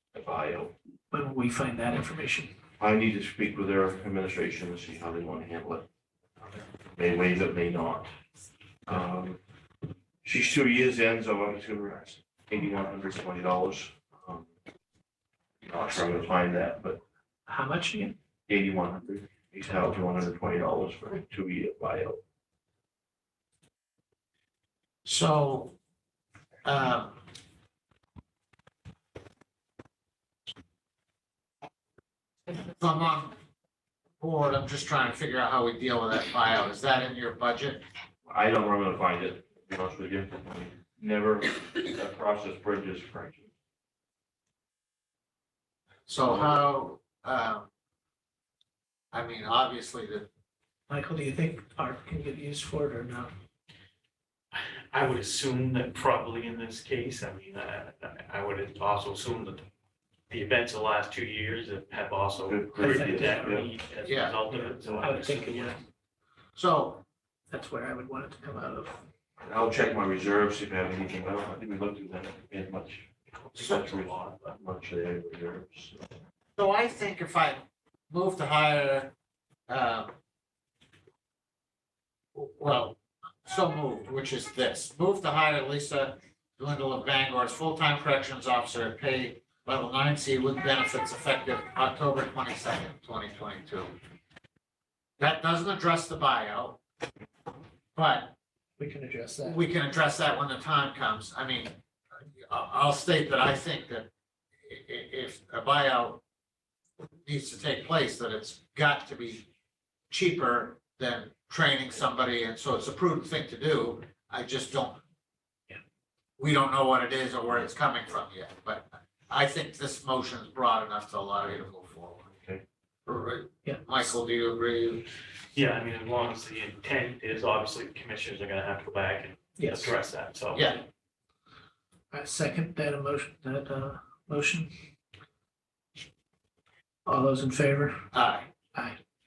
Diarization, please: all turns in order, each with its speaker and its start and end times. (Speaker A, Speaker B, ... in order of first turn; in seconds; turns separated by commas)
Speaker A: 0.1-0.7, Speaker B: 1.1-2.5, Speaker A: 2.8-5.9, Speaker A: 7.0-8.1, Speaker A: 8.9-9.4, Speaker A: 10.2-14.5, Speaker A: 15.7-17.0, Speaker B: 17.5-18.2, Speaker A: 18.5-22.2, Speaker C: 25.1-25.8, Speaker C: 26.7-27.2, Speaker C: 32.6-33.4, Speaker C: 34.2-37.8, Speaker A: 38.3-43.5, Speaker C: 46.1-47.7, Speaker C: 49.1-50.3, Speaker B: 50.9-53.3, Speaker D: 54.5-59.7, Speaker D: 60.3-65.8, Speaker A: 62.5-63.7, Speaker B: 62.8-63.6, Speaker C: 64.0-64.3, Speaker B: 64.8-65.8, Speaker C: 66.6-67.0, Speaker B: 67.5-69.0, Speaker A: 69.4-76.1, Speaker C: 76.6-79.1, Speaker C: 79.7-80.1, Speaker C: 82.3-93.9, Speaker C: 95.2-96.8, Speaker C: 98.0-98.3, Speaker B: 98.8-99.6, Speaker C: 99.4-101.8, Speaker C: 102.4-104.1, Speaker C: 104.7-106.2, Speaker C: 107.2-109.5, Speaker C: 110.1-115.0, Speaker C: 116.4-122.3, Speaker A: 122.4-122.6, Speaker C: 123.1-125.1, Speaker B: 123.6-124.1, Speaker D: 125.5-130.8, Speaker B: 129.6-129.9, Speaker C: 130.5-130.8, Speaker B: 132.1-134.7, Speaker B: 137.1-138.1, Speaker C: 138.1-138.5